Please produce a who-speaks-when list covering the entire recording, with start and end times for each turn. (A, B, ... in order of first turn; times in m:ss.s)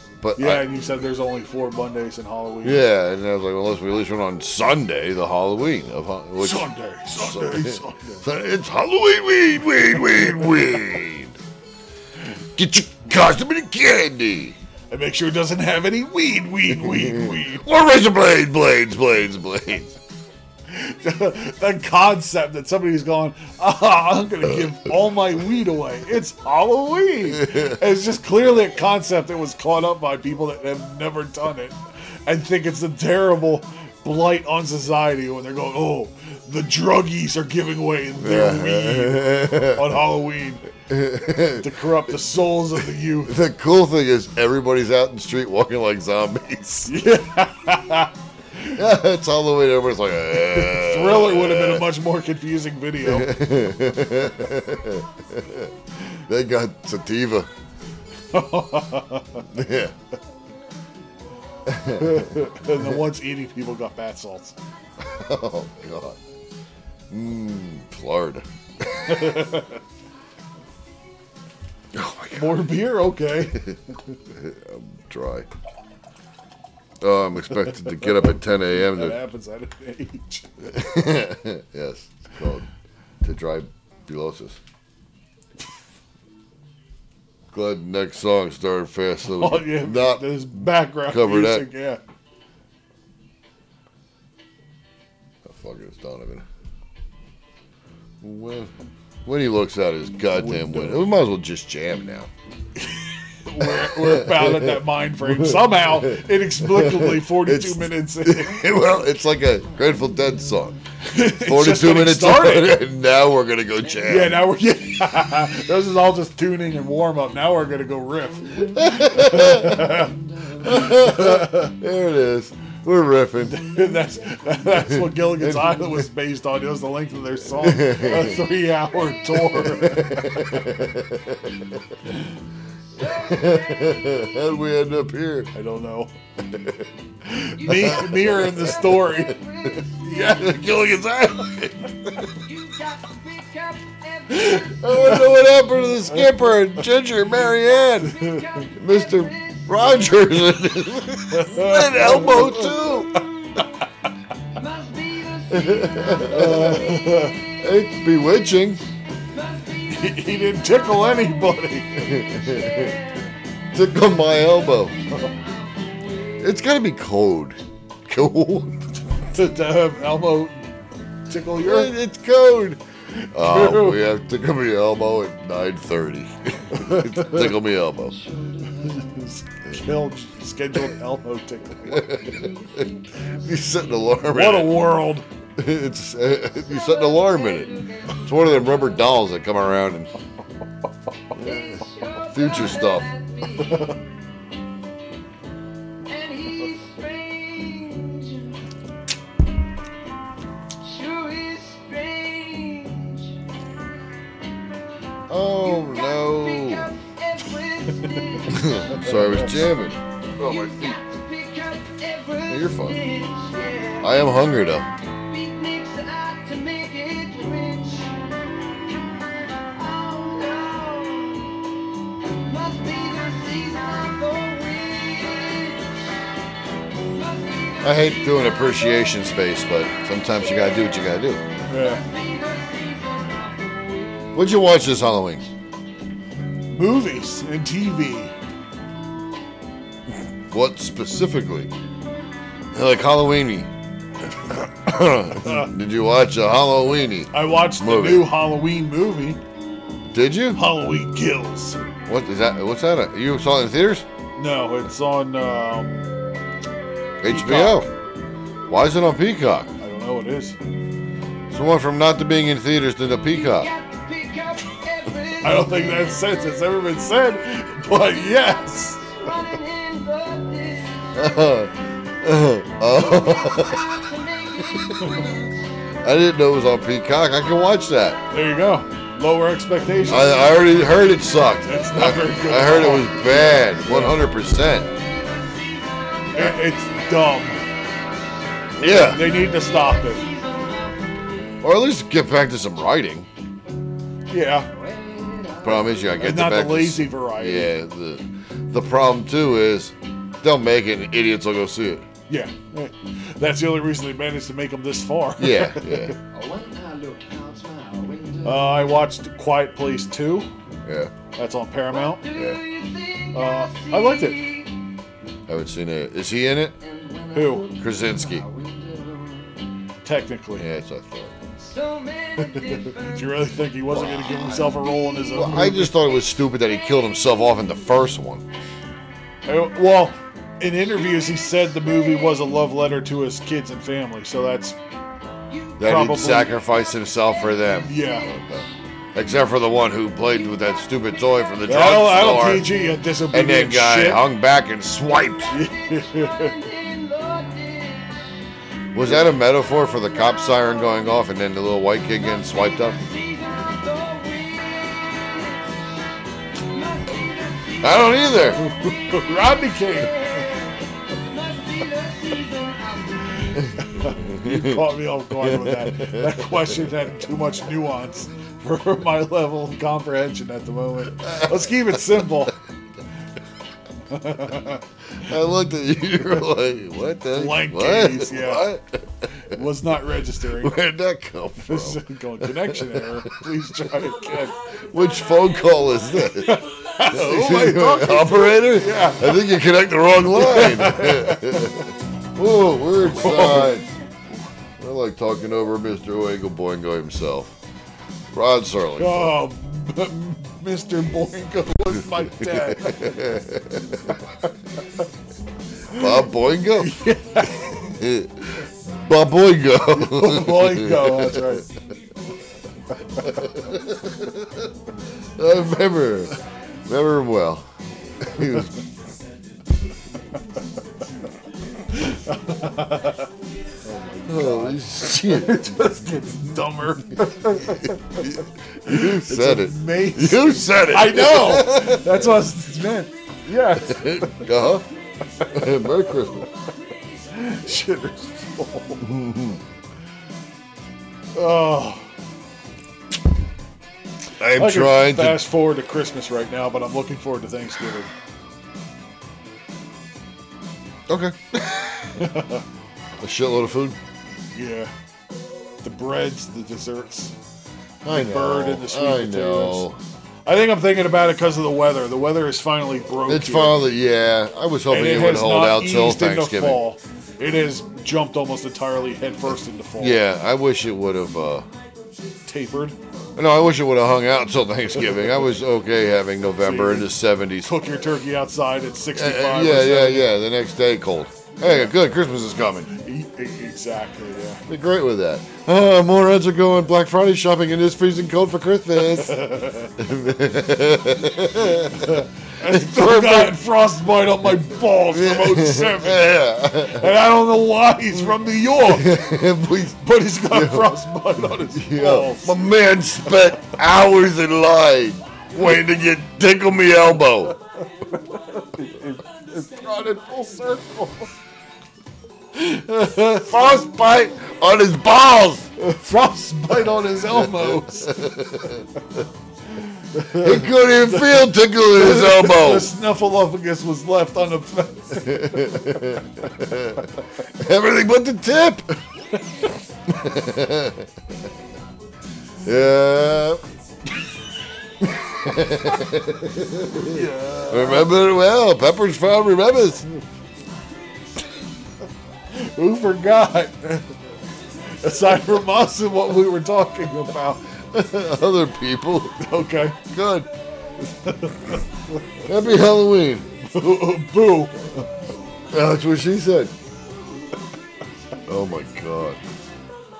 0:00.2-0:00.8 A
0:00.4-0:02.8 B
0:02.6-0:11.4 A
0:06.4-0:08.2 B
0:12.6-0:14.6 A
0:14.9-0:17.7 B
0:16.8-0:20.0 A
0:20.7-0:40.6 B
0:27.3-0:27.8 A
0:38.2-0:40.0 A
0:40.9-0:41.8 A
0:41.6-0:43.3 B
0:43.2-0:46.9 A
0:46.9-0:48.8 B
0:48.8-0:51.9 A
0:50.4-0:53.3 B
0:53.0-0:55.7 A
0:56.3-0:57.5 A
0:58.3-0:59.5 B
0:59.5-1:00.0 A
1:01.7-1:03.0 A
1:02.0-1:04.6 B
1:05.0-1:06.2 A
1:07.1-1:09.5 A
1:09.1-1:09.8 B
1:11.9-1:13.8 A
1:12.3-1:13.7 B
1:14.3-1:15.5 A
1:17.0-1:19.2 A
1:17.8-1:20.8 B
1:20.7-1:22.7 A
1:23.2-1:24.6 A
1:27.5-1:31.7 A
1:29.2-1:32.0 B
1:35.4-1:36.5 A
1:38.2-1:38.7 A
1:39.2-1:42.3 A
1:40.3-1:41.1 B
1:43.4-1:48.6 B
1:43.6-1:54.4 A
1:51.0-1:52.8 B
1:54.0-2:01.7 B
1:58.4-2:00.8 C
1:58.8-2:00.0 A
2:00.6-2:03.7 A
2:03.4-2:10.5 B
2:04.7-2:06.0 A
2:07.6-2:08.4 A
2:09.4-2:12.0 A
2:12.9-2:14.2 C
2:13.0-2:15.5 A
2:15.5-2:16.1 B
2:16.5-2:16.8 A
2:17.3-2:19.4 B
2:17.6-2:20.6 C
2:17.7-2:19.2 A
2:20.0-2:20.7 B
2:20.2-2:22.4 A
2:22.4-2:25.1 C
2:24.4-2:25.2 B
2:24.6-2:28.2 A
2:27.7-2:30.3 C
2:28.1-2:28.7 B
2:28.8-2:33.2 A
2:31.3-2:32.7 B
2:32.1-2:33.8 C
2:34.5-2:36.7 C
2:35.5-2:38.8 A
2:36.1-2:37.3 B
2:39.3-2:43.3 C
2:39.9-2:42.0 B
2:42.0-2:43.0 A
2:43.7-2:45.0 A
2:44.8-2:46.3 C
2:46.4-2:48.9 A
2:49.2-2:50.7 B
2:51.3-2:51.9 B
2:51.6-2:52.8 A
2:53.2-2:54.1 B
2:53.3-2:58.2 A
2:56.7-2:57.5 B
2:58.1-2:59.2 C
2:58.8-3:02.3 B
3:01.9-3:02.6 A
3:02.1-3:03.9 C
3:03.3-3:04.9 A
3:04.3-3:05.3 B
3:05.6-3:10.1 A
3:06.5-3:09.1 C
3:11.4-3:14.0 C
3:11.4-3:11.8 A
3:12.3-3:13.1 A
3:13.7-3:13.9 B
3:16.1-3:18.6 C
3:20.8-3:23.4 C
3:25.3-3:26.9 A
3:25.6-3:29.1 C
3:28.5-3:31.0 A
3:28.6-3:29.5 B
3:30.4-3:34.4 C
3:32.5-3:33.0 A
3:34.0-3:34.9 A
3:35.0-3:38.2 C
3:38.9-3:41.6 C
3:42.3-3:46.0 C
3:47.1-3:49.0 C
3:47.8-3:51.4 A
3:51.7-3:52.0 B
3:51.7-3:54.5 C
3:54.3-3:55.5 A
3:56.7-3:58.3 B
4:00.5-4:01.7 A
4:02.7-4:03.7 A
4:04.4-4:08.4 A
4:05.4-4:05.7 B
4:07.3-4:09.4 B
4:10.1-4:10.6 A
4:10.5-4:11.8 B
4:12.1-4:14.1 A
4:14.4-4:16.0 B
4:17.2-4:17.9 A
4:17.2-4:17.9 B
4:18.7-4:19.7 A
4:19.8-4:20.6 B
4:21.5-4:23.7 A
4:23.4-4:26.2 C
4:25.4-4:29.2 B
4:29.1-4:31.3 C
4:31.1-4:34.0 A
4:32.9-4:35.6 C
4:36.0-4:38.2 A
4:38.3-4:40.4 B
4:40.1-4:44.9 A
4:41.7-4:44.2 B
4:44.9-4:46.5 C
4:46.4-4:47.6 B
4:48.8-4:49.2 A
4:48.9-4:50.2 B
4:49.0-4:51.6 C
4:51.6-4:53.3 A
4:54.3-4:54.7 B
4:54.7-4:56.2 C
4:55.6-5:02.1 A
4:56.2-4:57.7 B
5:02.3-5:06.2 B
5:05.4-5:06.1 A
5:06.3-5:09.0 C
5:08.4-5:10.5 B
5:10.9-5:11.1 A
5:11.4-5:12.2 B
5:11.9-5:14.8 C
5:12.3-5:12.6 A
5:13.3-5:14.4 B
5:15.5-5:16.8 A
5:16.8-5:19.7 C
5:17.3-5:17.7 B
5:17.8-5:18.5 A
5:20.0-5:20.7 B
5:20.6-5:21.3 A
5:21.6-5:25.3 C
5:22.4-5:26.0 B
5:23.9-5:24.6 A
5:25.3-5:28.4 A
5:29.5-5:34.8 B
5:31.8-5:32.4 C
5:35.5-5:36.0 C
5:35.8-5:42.7 A
5:35.8-5:36.5 B
5:37.3-5:38.7 C
5:37.9-5:38.3 B
5:40.4-5:40.9 C
5:41.6-5:44.2 B
5:43.3-5:45.5 A
5:45.5-5:46.6 B
5:45.5-5:48.3 C
5:48.9-5:53.0 A
5:52.4-5:59.3 C
5:57.8-5:58.6 A
5:58.6-6:00.1 B
5:59.9-6:03.7 C
6:03.4-6:12.6 B
6:04.2-6:06.8 A
6:11.2-6:12.4 A
6:14.1-6:14.8 B
6:15.2-6:19.8 A
6:17.3-6:18.7 B
6:19.4-6:20.8 B
6:20.4-6:33.9 A
6:21.7-6:24.6 B
6:26.2-6:29.6 B
6:30.3-6:31.9 B
6:33.0-6:33.8 B
6:34.8-6:37.5 A
6:38.3-6:39.4 A
6:39.0-6:43.3 B
6:42.1-6:44.1 A
6:45.9-6:47.0 A
6:46.8-6:47.9 B
6:47.7-6:51.6 A
6:49.9-6:51.7 B
6:53.2-6:54.6 A
6:55.3-6:57.7 A
6:58.2-6:58.8 A
7:01.9-7:03.3 B
7:03.8-7:14.5 B
7:04.3-7:05.9 A
7:07.8-7:12.4 A
7:13.9-7:14.9 A
7:15.4-7:15.8 B
7:15.5-7:16.5 A
7:17.3-7:19.2 B
7:19.0-7:19.6 A
7:21.3-7:22.1 B
7:24.4-7:25.5 A
7:24.5-7:28.1 B
7:31.1-7:32.2 A
7:32.2-7:32.6 B
7:33.2-7:34.0 A
7:34.5-7:34.9 B
7:35.8-7:37.4 B
7:38.0-7:40.0 A
7:38.1-7:39.9 B
7:40.5-7:43.9 B
7:43.2-7:46.9 A
7:44.9-7:50.2 B
7:50.0-7:51.7 A
7:52.5-7:53.0 B
7:53.4-7:57.9 A
7:56.6-7:57.1 B
7:57.6-8:00.3 B
7:59.2-8:02.9 A
8:01.6-8:02.0 B
8:03.0-8:04.6 B
8:04.7-8:09.4 A
8:09.0-8:09.9 B
8:10.0-8:13.6 A
8:11.7-8:16.3 B
8:14.9-8:17.2 A
8:16.8-8:19.2 B
8:18.8-8:27.6 A
8:20.0-8:22.6 B
8:27.8-8:31.3 B
8:32.6-8:33.5 B
8:33.3-8:35.7 A
8:35.8-8:38.2 B
8:37.3-8:38.9 A
8:40.0-8:45.8 B
8:40.3-8:42.9 A
8:45.1-8:49.0 A
8:50.1-8:51.1 A
8:52.6-8:53.6 A
8:55.0-9:00.1 A
8:57.0-8:58.1 B
9:02.5-9:04.1 B
9:04.9-9:07.7 B
9:07.8-9:10.5 A
9:09.4-9:10.0 B
9:11.1-9:12.2 B
9:12.4-9:13.5 A
9:13.7-9:15.1 B
9:15.7-9:16.7 A
9:18.5-9:19.4 A